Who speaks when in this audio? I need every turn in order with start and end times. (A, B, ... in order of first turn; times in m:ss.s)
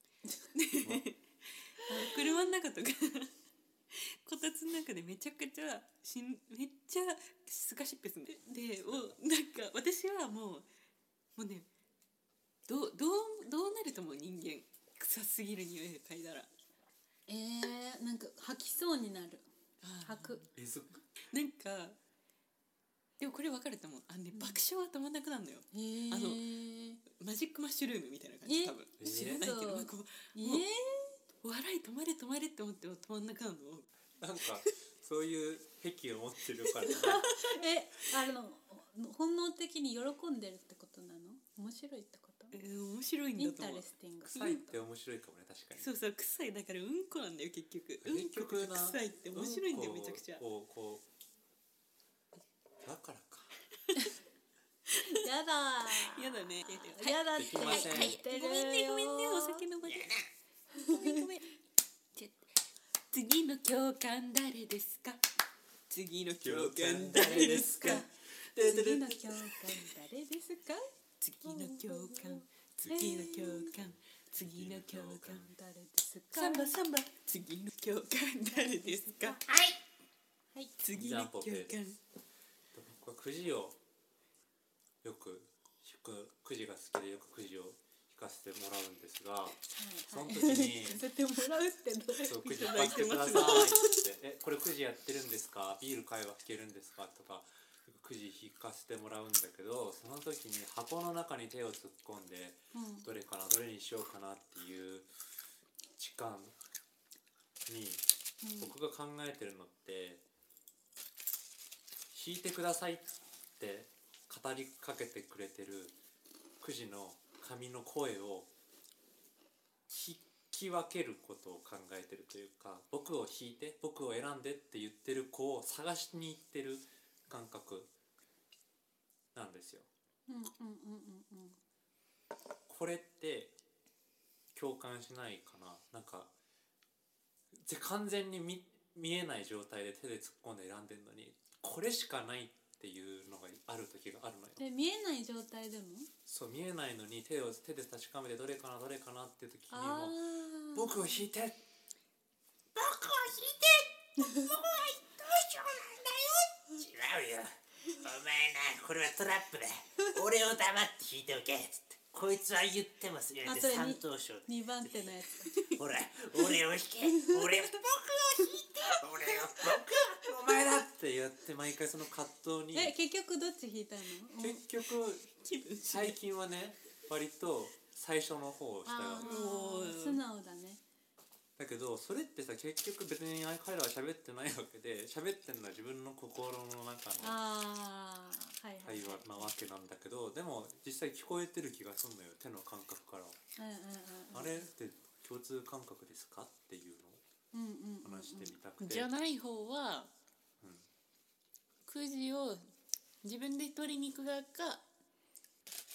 0:00.5-0:03.3 A
0:00.8-0:01.1 B
0:03.9-0:10.6 A
0:08.8-0:09.2 B
0:11.4-0:11.6 A
0:12.7-0:16.5 A
0:17.3-0:19.4 C
0:19.8-0:20.5 A
0:20.0-0:20.4 C
0:20.5-0:21.0 B
0:21.3-0:22.0 A
0:23.2-0:26.5 A
0:24.3-0:24.6 C
0:25.7-0:27.0 C
0:27.1-0:30.6 A
0:28.4-0:31.1 C
0:29.0-0:29.5 B
0:31.4-0:33.9 A
0:34.2-0:37.3 B
0:34.4-0:34.7 A
0:36.7-0:37.5 A
0:36.8-0:42.6 C
0:42.5-0:44.6 A
0:43.4-0:44.7 C
0:44.2-0:45.9 B
0:45.8-0:50.4 A
0:48.0-0:51.0 B
0:52.8-0:53.5 B
0:54.9-0:59.6 C
0:55.9-1:00.1 A
0:57.4-0:58.2 B
0:59.8-1:00.3 D
1:00.7-1:01.2 C
1:00.8-1:01.4 A
1:02.1-1:02.5 A
1:03.1-1:05.2 A
1:05.9-1:09.7 A
1:06.4-1:08.0 B
1:07.8-1:10.9 C
1:11.2-1:15.5 A
1:11.4-1:13.7 C
1:12.8-1:15.5 B
1:15.4-1:16.8 C
1:16.3-1:19.4 A
1:18.5-1:19.5 C
1:19.5-1:19.8 D
1:20.8-1:22.0 A
1:20.9-1:21.8 B
1:22.7-1:23.8 B
1:25.0-1:31.0 B
1:29.7-1:32.4 C
1:32.2-1:45.1 B
1:32.3-1:34.0 A
1:33.3-1:33.7 C
1:42.7-1:43.1 C
1:46.0-1:46.6 B
1:47.7-1:48.0 B
1:48.4-1:48.7 C
1:48.6-1:50.2 B
1:52.1-1:55.9 B
1:56.6-1:58.5 B
1:59.9-2:07.9 B
2:09.3-2:09.9 B
2:10.3-2:11.6 C
2:12.7-2:13.5 B
2:14.5-2:16.3 B
2:17.6-2:24.6 B
2:24.6-2:26.1 C
2:26.2-2:31.6 B
2:29.7-2:31.2 C
2:32.7-2:45.1 D
2:43.4-2:45.6 C
2:45.6-2:50.8 D
2:47.0-2:47.5 C
2:49.7-2:52.9 B
2:52.7-2:54.6 C
2:54.4-2:55.3 B
2:55.4-2:56.2 A
2:55.9-2:59.3 B
2:58.8-3:00.8 C
2:59.2-3:00.2 A
3:01.6-3:07.4 B
3:07.2-3:09.5 C
3:08.8-3:13.4 B
3:13.6-3:14.6 C
3:14.3-3:17.2 B
3:17.5-3:18.6 C
3:18.0-3:19.1 B
3:18.8-3:20.1 A
3:20.6-3:20.9 B
3:21.8-3:22.7 A
3:23.2-3:24.8 A